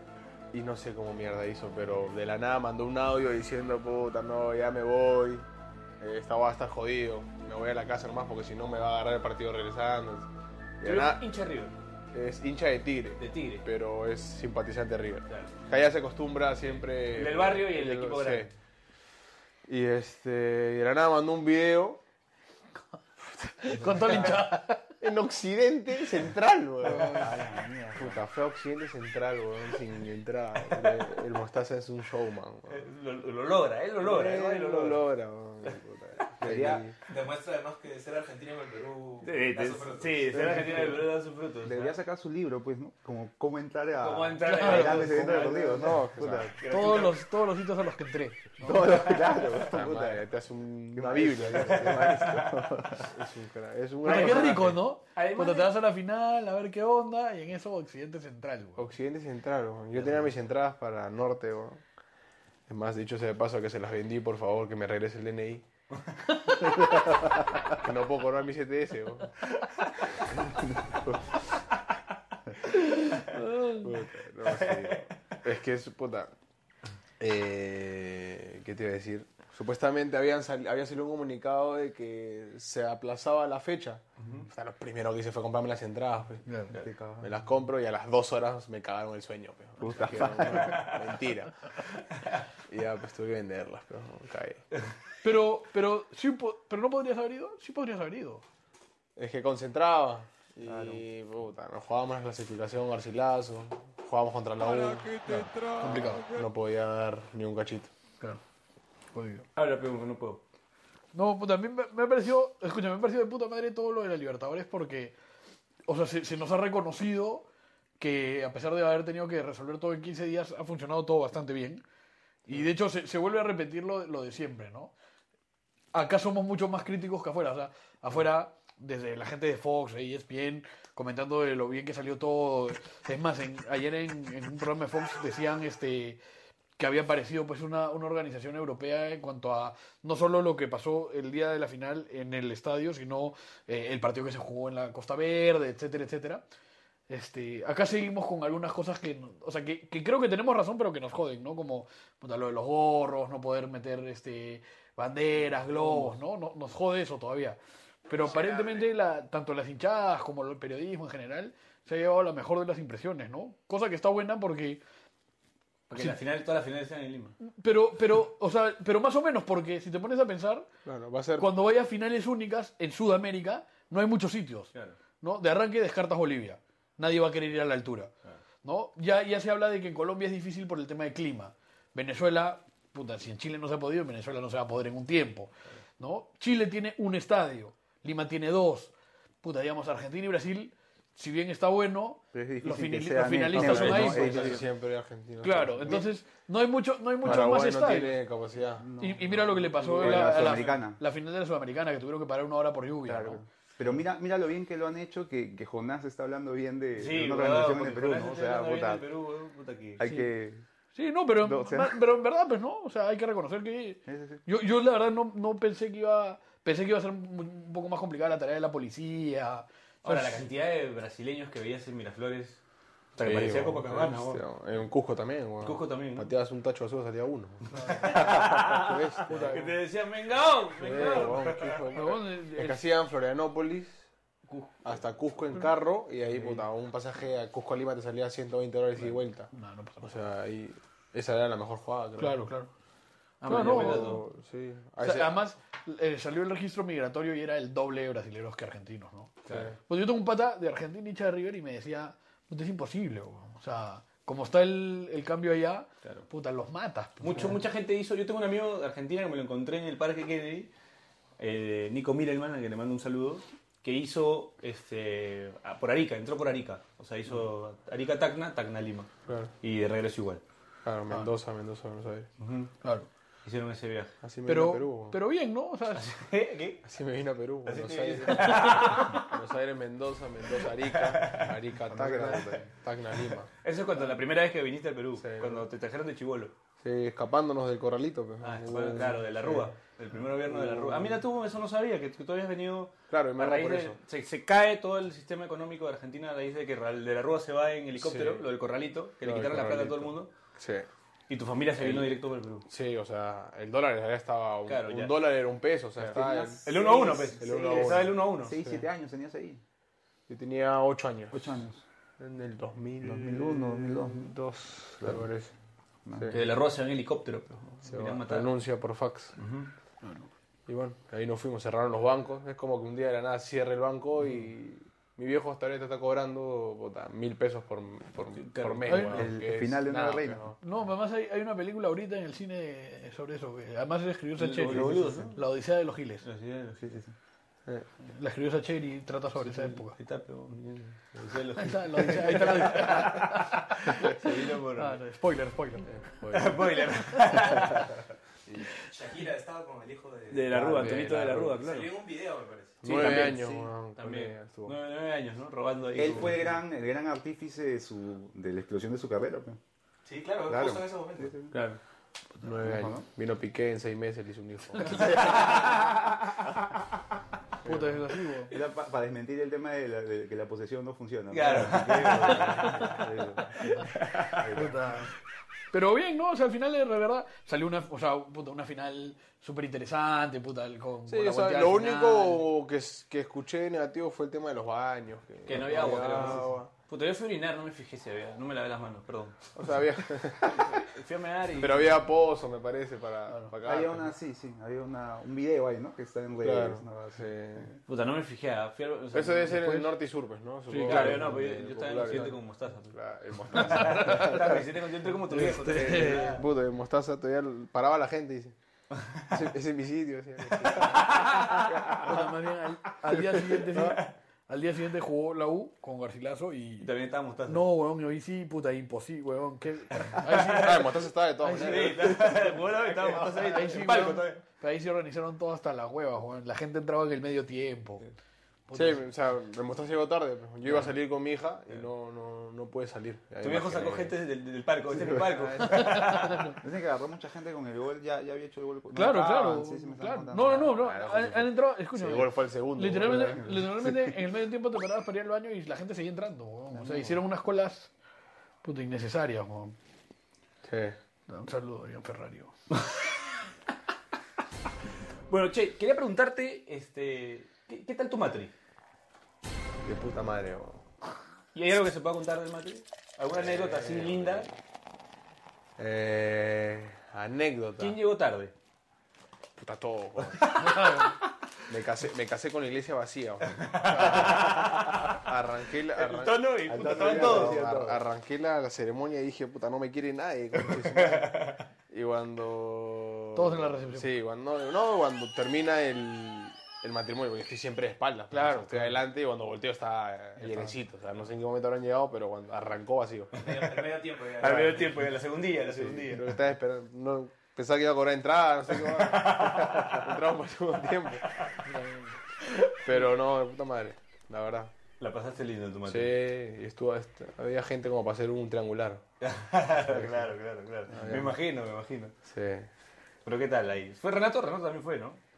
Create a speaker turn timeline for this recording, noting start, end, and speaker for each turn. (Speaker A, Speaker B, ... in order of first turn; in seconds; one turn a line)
Speaker A: 0.5-5.5
Speaker A: 6.0-10.3
Speaker A: 10.8-11.2
Speaker B: 10.8-11.7
Speaker A: 12.1-18.5
Speaker B: 13.2-13.6
Speaker B: 17.1-18.5
Speaker A: 19.6-22.0
Speaker A: 23.6-24.4
Speaker C: 23.6-24.8
Speaker A: 25.0-32.8
Speaker C: 26.8-27.3
Speaker D: 27.2-28.2
Speaker B: 30.7-31.0
Speaker B: 32.7-35.0
Speaker A: 34.0-37.0
Speaker D: 36.4-36.9
Speaker E: 37.1-40.4
Speaker B: 39.2-41.8
Speaker A: 40.3-41.0
Speaker D: 40.4-41.0
Speaker D: 41.6-46.6
Speaker B: 44.0-45.5
Speaker C: 44.5-45.1
Speaker A: 45.1-46.5
Speaker B: 46.5-47.1
Speaker C: 46.7-49.0
Speaker D: 48.6-50.2
Speaker A: 49.0-54.8
Speaker B: 49.1-49.4
Speaker D: 50.9-53.1
Speaker C: 54.0-58.8
Speaker B: 54.0-54.6
Speaker B: 55.1-55.7
Speaker A: 58.8-61.8
Speaker A: 62.7-65.7
Speaker A: 67.8-69.4
Speaker A: 70.9-71.4
Speaker C: 72.7-73.9
Speaker A: 73.8-76.3
Speaker B: 74.4-75.0
Speaker A: 77.2-86.4
Speaker B: 84.2-84.5
Speaker C: 86.5-86.7
Speaker D: 86.7-87.3
Speaker A: 87.2-91.8
Speaker D: 89.8-90.9
Speaker B: 90.5-90.9
Speaker A: 92.7-94.6
Speaker C: 95.2-98.4
Speaker A: 99.2-107.9
Speaker B: 100.7-101.0
Speaker C: 105.2-106.3
Speaker C: 109.1-109.5
Speaker B: 109.5-110.4
Speaker C: 111.1-115.1
Speaker C: 115.9-117.5
Speaker C: 118.0-121.8
Speaker C: 122.5-124.9
Speaker C: 125.9-136.2
Speaker C: 136.8-146.4
Speaker C: 147.1-164.8
Speaker B: 155.7-156.1
Speaker B: 158.3-158.5
Speaker B: 165.9-167.3
Speaker C: 167.4-170.7
Speaker A: 170.8-171.5
Speaker C: 171.4-178.1
Speaker C: 178.6-194.6
Speaker D: 192.3-194.6
Speaker A: 193.5-196.0
Speaker C: 195.4-198.2
Speaker A: 197.2-198.9
Speaker D: 198.7-201.0
Speaker C: 199.0-203.4
Speaker A: 200.0-200.4
Speaker B: 200.1-200.8
Speaker D: 203.0-209.0
Speaker B: 207.0-210.0
Speaker D: 210.0-210.6
Speaker C: 210.0-210.3
Speaker C: 210.9-220.4
Speaker D: 211.4-212.1
Speaker D: 214.0-214.4
Speaker B: 220.0-222.6
Speaker B: 223.1-224.4
Speaker A: 223.2-229.8
Speaker B: 225.6-226.3
Speaker C: 227.7-228.3
Speaker B: 227.9-232.0
Speaker C: 229.3-229.7
Speaker A: 230.8-234.1
Speaker C: 231.9-232.8
Speaker B: 234.5-234.8
Speaker A: 234.8-242.4
Speaker C: 236.3-236.6
Speaker C: 239.5-240.1
Speaker C: 242.2-242.7
Speaker B: 243.4-244.2
Speaker C: 243.4-244.2
Speaker A: 243.5-245.4
Speaker C: 245.0-249.3
Speaker B: 249.4-249.7
Speaker A: 249.5-249.8
Speaker C: 249.9-257.6
Speaker B: 257.2-260.7
Speaker B: 261.4-269.1
Speaker A: 269.3-269.5
Speaker B: 269.6-270.4
Speaker A: 270.8-272.3
Speaker B: 272.4-272.7
Speaker C: 272.8-273.1
Speaker B: 273.4-274.1
Speaker A: 274.2-275.2
Speaker C: 274.4-276.1
Speaker B: 275.9-276.8
Speaker A: 276.8-283.5
Speaker B: 277.6-279.3
Speaker C: 278.6-278.9
Speaker B: 280.8-281.5
Speaker D: 281.9-282.6
Speaker B: 283.6-286.5
Speaker A: 285.2-285.6
Speaker A: 286.8-289.7
Speaker B: 288.4-300.3
Speaker A: 290.4-291.2
Speaker A: 293.1-294.0
Speaker A: 298.0-298.4
Speaker A: 299.2-300.9
Speaker B: 301.3-302.6
Speaker A: 301.8-308.9
Speaker B: 304.6-305.3
Speaker D: 306.0-309.6
Speaker B: 306.6-308.6
Speaker A: 310.3-311.6
Speaker D: 311.3-311.8
Speaker A: 312.2-315.5
Speaker D: 313.0-315.2
Speaker D: 316.0-316.4
Speaker A: 316.1-316.4
Speaker B: 316.3-318.5
Speaker A: 317.8-319.3
Speaker B: 319.4-319.7
Speaker C: 320.0-320.3
Speaker A: 320.7-330.6
Speaker B: 328.3-329.0
Speaker C: 328.9-329.2
Speaker D: 329.0-330.5
Speaker C: 330.6-336.2
Speaker B: 334.4-335.4
Speaker D: 334.8-335.3
Speaker B: 336.2-337.1
Speaker D: 336.8-337.1
Speaker C: 338.0-339.9
Speaker B: 339.4-345.0
Speaker C: 341.6-345.9
Speaker A: 345.9-346.6
Speaker B: 346.3-348.0
Speaker C: 347.1-347.6
Speaker E: 348.8-350.6
Speaker B: 350.3-351.9
Speaker A: 350.5-351.6
Speaker E: 351.5-352.8
Speaker A: 352.8-354.8
Speaker B: 352.8-356.6
Speaker D: 355.9-359.6
Speaker E: 360.0-361.3
Speaker D: 360.5-361.6
Speaker B: 361.5-361.8
Speaker A: 362.4-365.2
Speaker D: 362.5-363.1
Speaker D: 364.9-365.9
Speaker B: 364.9-366.7
Speaker C: 367.6-368.5
Speaker D: 368.5-374.8
Speaker B: 371.3-373.0
Speaker A: 372.2-372.9
Speaker B: 373.7-374.5
Speaker C: 374.5-375.1
Speaker C: 375.7-382.4
Speaker A: 381.1-386.7
Speaker B: 385.4-389.5
Speaker A: 389.6-390.9
Speaker B: 390.5-392.0
Speaker A: 391.5-394.1
Speaker D: 393.6-397.6
Speaker A: 396.4-397.8
Speaker B: 397.9-399.7
Speaker A: 399.1-404.7
Speaker C: 399.5-399.9
Speaker C: 400.7-401.2
Speaker B: 400.8-403.0
Speaker B: 403.5-406.4
Speaker C: 403.6-404.4
Speaker A: 405.3-408.5
Speaker C: 405.3-406.3
Speaker A: 409.3-412.2
Speaker B: 410.7-412.1
Speaker C: 412.0-416.9
Speaker A: 413.7-414.0
Speaker B: 413.7-414.1
Speaker B: 416.8-417.6
Speaker C: 417.5-422.5
Speaker B: 420.1-420.9
Speaker A: 420.5-422.4
Speaker B: 421.5-424.4
Speaker C: 423.3-428.0
Speaker C: 428.7-429.0
Speaker A: 428.7-434.1
Speaker B: 433.4-436.5
Speaker A: 435.1-435.8
Speaker D: 435.4-435.7
Speaker C: 435.7-436.6
Speaker D: 436.6-440.8
Speaker C: 438.9-447.9
Speaker A: 440.4-443.4
Speaker D: 443.0-444.0
Speaker D: 446.8-447.1
Speaker C: 448.6-449.8
Speaker A: 450.6-451.0
Speaker C: 451.3-452.5
Speaker B: 455.3-458.5
Speaker A: 459.8-460.8
Speaker B: 461.5-464.5
Speaker A: 463.3-464.5
Speaker A: 465.8-468.0
Speaker B: 467.8-468.5
Speaker A: 469.6-470.7
Speaker B: 470.3-471.3
Speaker C: 470.6-471.1
Speaker A: 471.7-493.5
Speaker B: 473.6-475.2
Speaker B: 475.9-477.6
Speaker D: 476.7-478.0
Speaker B: 480.6-481.6
Speaker C: 483.3-484.1
Speaker C: 488.3-489.0
Speaker C: 490.4-490.7
Speaker E: 493.4-494.9
Speaker B: 493.4-496.3
Speaker A: 494.4-494.7
Speaker A: 495.6-501.3
Speaker B: 498.8-500.1
Speaker C: 501.6-502.1
Speaker B: 502.4-502.7
Speaker A: 502.8-504.7
Speaker B: 505.0-506.2
Speaker A: 505.9-509.0
Speaker B: 509.2-512.1
Speaker A: 509.8-510.3
Speaker A: 510.9-511.4
Speaker A: 512.2-512.7
Speaker B: 513.2-515.2